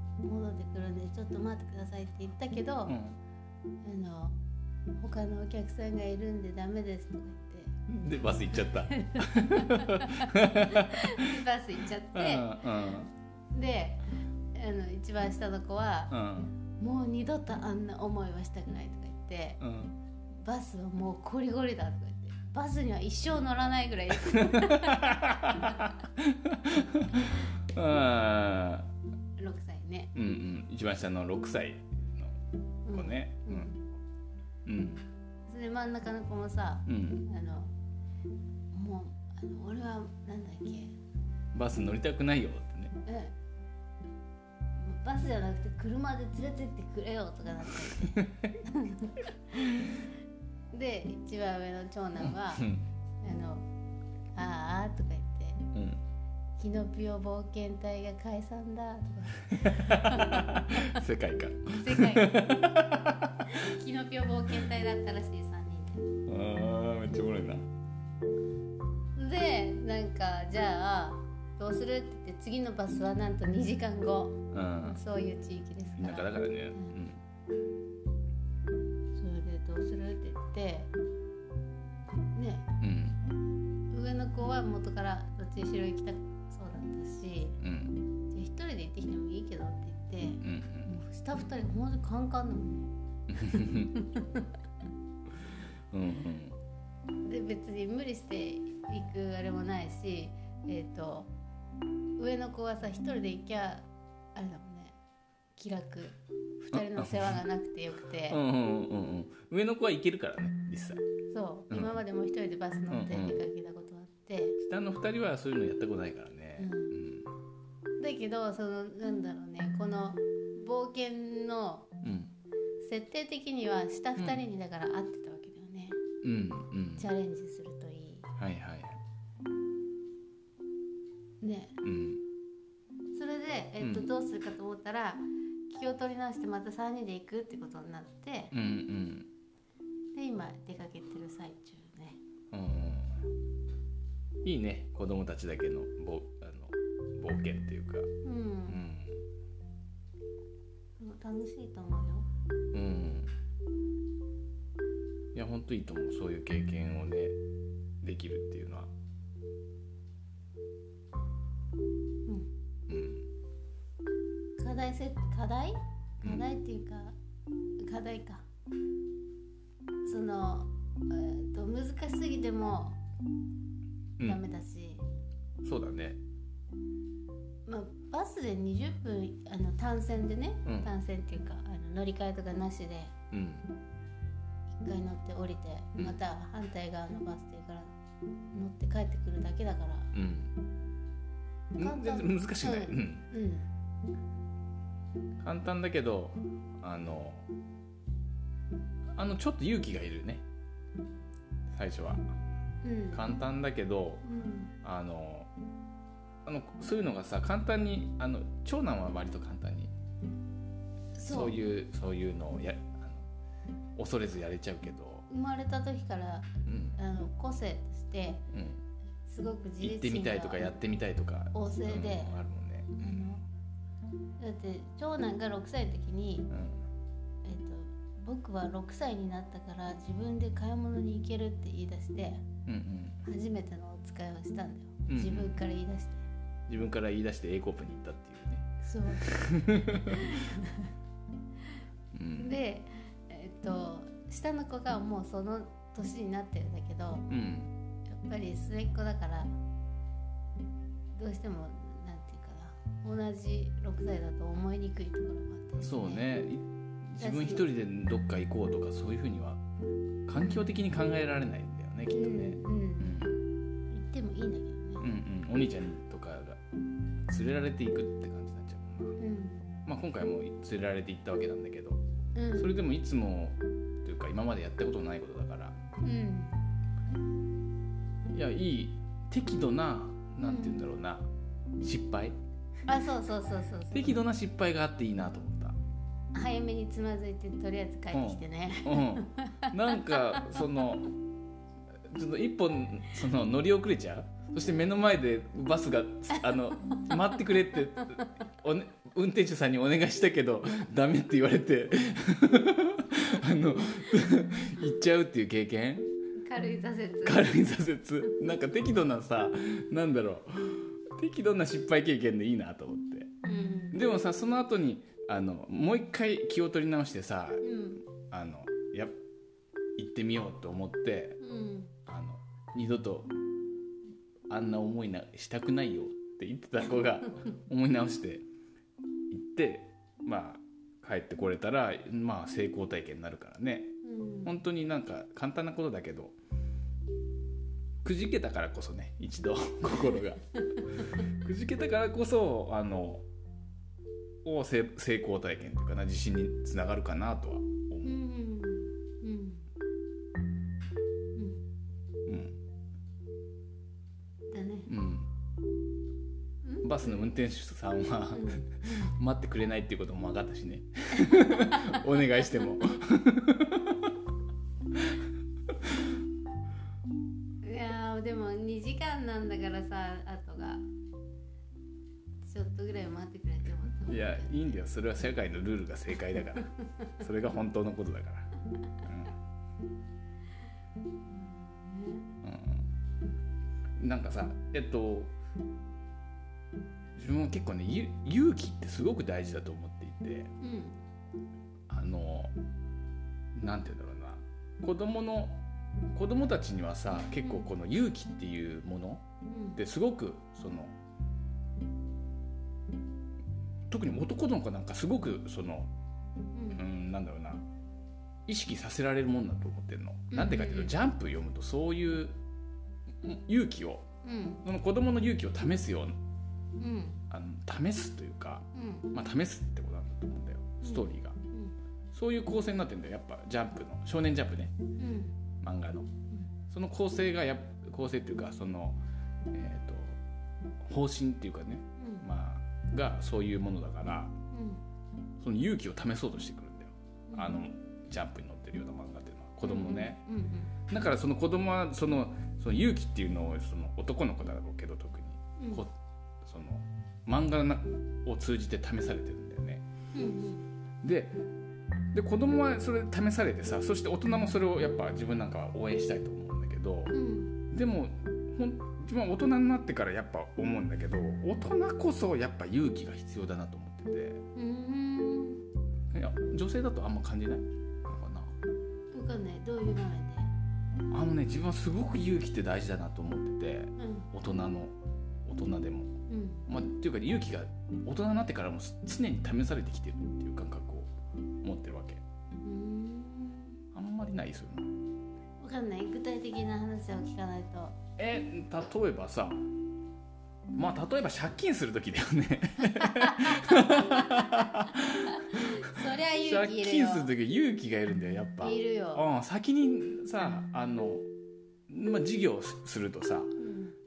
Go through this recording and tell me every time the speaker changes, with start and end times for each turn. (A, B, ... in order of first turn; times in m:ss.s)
0:00.2-0:03.0 A
0:02.8-0:03.2 B
0:03.8-0:04.4 A
0:05.0-0:07.8 A
0:07.9-0:11.4 B
0:08.9-0:13.0 A
0:12.1-0:13.1 B
0:13.5-0:14.0 A
0:14.5-0:16.1 A
0:16.1-0:16.5 B
0:16.8-0:19.6 A
0:19.6-0:20.0 B
0:20.3-0:25.9 A
0:24.1-0:28.9 B
0:29.4-0:30.1 A
0:30.1-0:32.3 B
0:32.8-0:33.8 A
0:32.9-0:33.7 B
0:34.6-0:35.0 B
0:35.5-0:37.7 A
0:36.8-0:37.2 B
0:38.7-0:41.0 A
0:41.5-0:42.9 B
0:43.0-0:43.3 A
0:44.8-0:49.9 A
0:47.7-0:48.5 B
0:50.7-0:52.6 A
0:52.2-0:52.8 B
0:53.2-0:53.7 A
0:54.3-0:55.6 A
0:55.7-0:56.0 B
0:56.6-1:01.0 A
0:59.5-1:03.6 B
1:01.7-1:02.7 A
1:03.4-1:06.1 A
1:06.2-1:07.7 B
1:09.2-1:16.9 A
1:14.5-1:15.0 B
1:16.0-1:17.2 B
1:19.1-1:20.9 A
1:22.3-1:22.6 A
1:22.8-1:23.2 B
1:23.9-1:27.6 A
1:27.6-1:28.0 B
1:28.3-1:32.9 A
1:30.4-1:30.9 B
1:33.3-1:33.9 B
1:33.4-1:34.4 A
1:35.9-1:36.6 B
1:37.2-1:41.3 A
1:42.2-1:45.0 A
1:45.6-1:48.4 A
1:46.7-1:47.4 B
1:48.3-1:51.0 B
1:51.3-1:54.6 A
1:51.7-1:52.0 B
1:52.9-1:53.4 B
1:54.6-1:57.3 B
1:56.6-1:56.9 A
1:58.0-2:01.9 A
2:02.0-2:02.3 B
2:02.8-2:06.0 A
2:04.2-2:04.4 B
2:06.2-2:07.1 B
2:07.0-2:08.3 A
2:08.4-2:09.0 B
2:11.4-2:11.8 A
2:11.8-2:12.2 B
2:13.1-2:18.5 A
2:13.8-2:14.1 B
2:18.5-2:19.3 B
2:20.1-2:22.2 A
2:22.5-2:23.3 B
2:24.4-2:28.1 B
2:28.2-2:28.8 A
2:28.7-2:29.2 B
2:31.0-2:32.3 A
2:32.7-2:33.3 B
2:35.3-2:37.4 B
2:38.0-2:38.9 B
2:42.9-2:43.2 B
2:44.6-2:47.2 A
2:47.8-2:48.4 A
2:50.0-2:53.0 A
2:54.2-2:55.0 A
2:55.6-2:56.2 B
2:57.6-3:03.1 A
3:00.6-3:00.9 B
3:03.3-3:03.7 B
3:04.7-3:07.9 A
3:08.5-3:10.1 A
3:10.1-3:10.5 B
3:11.7-3:13.2 B
3:11.8-3:13.7 A
3:15.4-3:17.5 B
3:19.1-3:20.4 B
3:21.7-3:22.2 B
3:22.8-3:23.3 A
3:23.1-3:24.2 B
3:24.2-3:24.7 A
3:24.8-3:25.5 B
3:26.4-3:29.9 B
3:31.1-3:31.6 A
3:31.3-3:33.2 B
3:34.0-3:35.2 B
3:35.3-3:38.4 A
3:36.6-3:37.0 B
3:38.5-3:38.8 B
3:39.2-3:40.7 A
3:39.8-3:43.4 B
3:41.5-3:42.4 A
3:43.0-3:43.4 A
3:44.4-3:46.5 A
3:46.5-3:46.8 B
3:47.4-3:52.4 A
3:52.6-3:53.2 B
3:53.2-3:56.2 A
3:55.1-3:55.6 B
3:56.7-4:00.4 B
3:58.8-3:59.3 A
4:00.1-4:00.9 A
4:02.1-4:02.6 B
4:02.4-4:07.3 A
4:07.3-4:07.7 B
4:08.1-4:09.5 A
4:11.1-4:16.3 A
4:15.8-4:19.6 B
4:17.2-4:17.6 A
4:20.3-4:23.4 B
4:20.4-4:20.7 A
4:22.1-4:23.1 A
4:23.9-4:25.1 A
4:25.0-4:26.6 B
4:27.3-4:29.2 B
4:29.2-4:29.7 A
4:29.8-4:32.0 B
4:32.3-4:32.8 A
4:32.5-4:35.8 B
4:36.0-4:36.6 A
4:38.3-4:42.4 B
4:40.4-4:40.8 A
4:42.8-4:44.2 A
4:43.9-4:45.8 B
4:46.3-4:50.7 A
4:48.1-4:51.1 B
4:52.1-5:06.1 B
4:56.3-4:57.1 A
4:58.0-4:58.2 A
5:06.4-5:08.4 A
5:07.2-5:13.3 B
5:13.4-5:14.0 A
5:13.9-5:19.2 B
5:17.6-5:18.0 A
5:20.0-5:21.4 B
5:21.4-5:21.9 A
5:22.0-5:23.3 B
5:24.5-5:28.4 B
5:29.3-5:36.4 B
5:34.0-5:34.5 A
5:38.0-5:43.2 B
5:44.4-5:48.2 B
5:48.0-5:49.7 A
5:51.3-5:51.6 A
5:52.2-5:52.6 B
5:54.5-5:54.9 A
5:54.9-5:55.3 B
5:56.6-5:57.3 A
5:56.8-6:04.1 B
5:58.3-5:58.6 A
6:01.2-6:02.0 A
6:04.9-6:05.2 B
6:07.6-6:10.8 A
6:12.4-6:14.8 A
6:14.1-6:18.5 B
6:19.0-6:19.3 B
6:21.2-6:22.3 A
6:22.4-6:22.9 B
6:24.0-6:25.3 B
6:27.1-6:30.5 B
6:30.6-6:31.0 A
6:31.9-6:32.5 B
6:33.5-6:39.2 B
6:39.5-6:39.8 A
6:39.8-6:40.9 B
6:43.9-6:45.9 B
6:46.5-6:46.8 A
6:46.7-6:47.6 B
6:48.5-6:52.4 B
6:50.3-6:50.9 A
6:53.2-6:54.0 B
6:54.2-6:54.6 A
6:54.6-6:56.2 B
6:56.8-6:57.2 A
6:57.3-7:01.4 B
6:58.7-6:59.1 A
7:00.8-7:01.7 A
7:02.1-7:04.7 B
7:05.0-7:05.4 A
7:05.6-7:06.1 B
7:06.7-7:09.0 B
7:09.5-7:10.2 B
7:10.8-7:14.4 B
7:12.0-7:12.3 A
7:14.5-7:14.8 A
7:15.4-7:20.2 B
7:17.3-7:17.5 A
7:19.6-7:20.7 A
7:20.9-7:25.9 B
7:25.6-7:25.8 A
7:26.4-7:29.8 B
7:30.1-7:30.7 A
7:31.0-7:31.4 B
7:32.1-7:37.1 B
7:37.1-7:37.6 A
7:37.7-7:44.4 B
7:44.5-7:45.6 A
7:46.1-7:48.5 B
7:49.1-7:50.5 A
7:51.1-7:56.1 B
7:54.0-7:54.3 A
7:56.3-7:56.6 A
7:56.7-8:02.2 B
8:02.6-8:03.8 A
8:03.9-8:04.9 B
8:05.6-8:08.0 A
8:08.2-8:09.7 B
8:10.7-8:21.2 B
8:13.0-8:17.3 A
8:18.6-8:19.2 A
8:21.9-8:23.6 B
8:23.6-8:23.9 A